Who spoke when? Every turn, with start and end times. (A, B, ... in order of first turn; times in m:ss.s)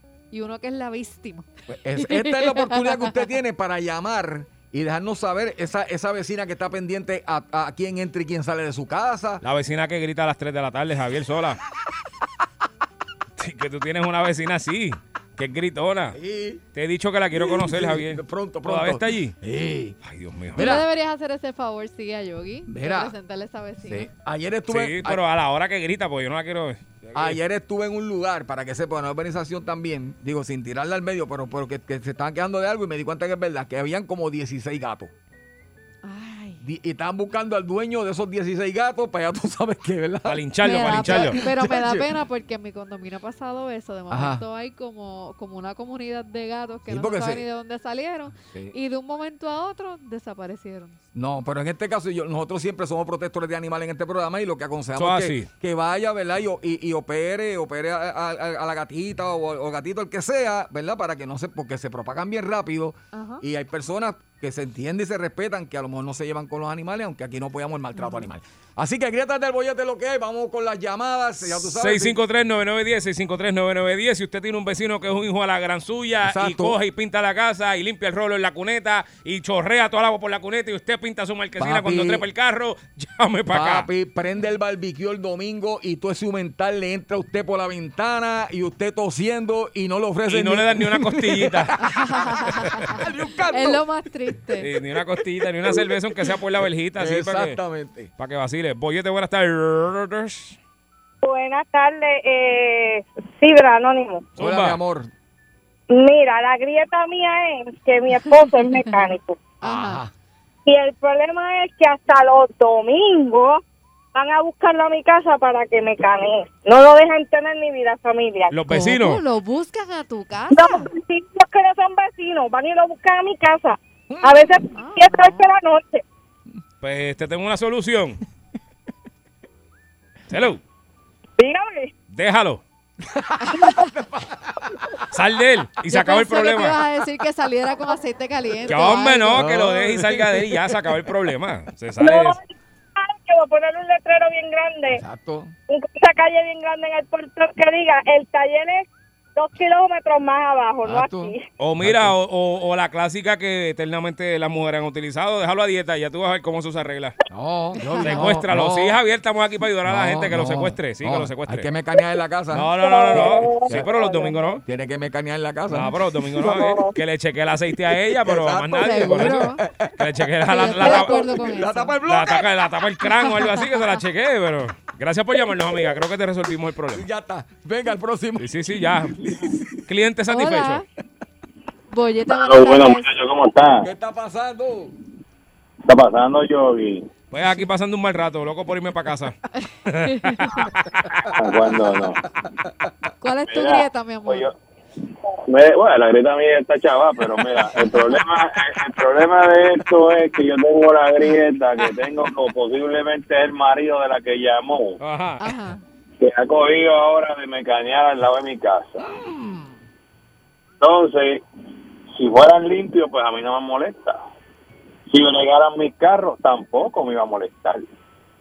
0:00.3-0:03.2 A
0:01.7-0:09.4 B
0:09.4-0:11.6 C
0:13.4-0:16.2 C
0:16.1-0:16.6 B
0:16.7-0:19.3 C
0:17.3-0:20.0 B
0:20.0-0:20.6 C
0:20.5-0:20.9 B
0:20.5-0:24.1 A
0:22.7-0:23.1 B
0:23.8-0:25.2 B
0:24.7-0:27.4 C
0:27.1-0:35.1 B
0:36.0-0:36.6 A
0:36.6-0:42.1 B
0:40.2-0:41.4 C
0:40.6-0:51.0 A
0:44.1-0:44.4 B
0:46.9-0:47.4 B
0:48.5-0:48.7 B
0:51.1-1:12.2 B
0:55.0-0:55.5 C
1:03.1-1:03.4 A
1:08.0-1:08.3 A
1:11.5-1:23.9 C
1:16.2-1:16.8 B
1:21.6-1:22.2 B
1:23.5-1:33.8 B
1:30.2-1:31.7 C
1:31.8-1:34.7 A
1:34.6-1:37.6 C
1:35.6-1:35.9 B
1:36.9-1:38.1 B
1:38.2-1:40.6 C
1:41.2-1:44.3 D
1:44.4-1:44.8 C
1:44.4-1:45.1 B
1:45.9-1:49.4 D
1:48.4-1:49.1 A
1:49.6-1:50.0 A
1:49.6-1:50.1 B
1:50.6-1:53.6 D
1:54.1-1:58.5 D
1:58.5-1:59.2 C
1:58.7-2:00.8 A
2:00.5-2:06.0 D
2:04.1-2:04.5 B
2:04.7-2:05.4 A
2:06.8-2:08.2 C
2:10.3-2:10.6 C
2:11.4-2:11.9 D
2:12.1-2:12.6 C
2:13.0-2:15.0 B
2:15.1-2:16.8 C
2:15.9-2:19.6 A
2:18.7-2:22.4 C
2:19.3-2:21.0 B
2:22.0-2:22.4 D
2:23.0-2:25.0 D
2:24.9-2:25.5 B
2:25.7-2:31.4 D
2:30.8-2:32.2 B
2:31.6-2:37.1 C
2:37.3-2:39.0 B
2:37.9-2:38.3 A
2:38.0-2:41.7 C
2:39.8-2:44.0 B
2:42.5-2:44.6 C
2:42.8-2:44.3 D
2:44.6-2:46.7 B
2:45.7-2:51.2 C
2:46.4-2:46.9 D
2:48.0-2:52.5 B
2:48.7-2:49.6 A
2:50.5-2:52.0 A
2:52.0-2:57.0 C
2:53.1-2:53.7 A
2:56.9-2:59.7 B
2:58.4-2:59.1 C
2:59.9-3:00.8 C
3:00.3-3:00.8 A
3:01.9-3:03.0 A
3:02.3-3:03.9 E
3:03.8-3:04.9 B
3:05.9-3:07.1 E
3:07.3-3:09.3 C
3:09.9-3:10.2 C
3:10.0-3:10.4 A
3:11.2-3:12.1 B
3:11.3-3:12.2 E
3:13.2-3:14.5 A
3:13.5-3:14.5 E
3:15.5-3:25.0 E
3:25.0-3:25.5 C
3:25.4-3:25.8 A
3:26.2-3:29.0 E
3:30.8-3:31.4 E
3:32.1-3:34.2 E
3:35.1-3:37.8 E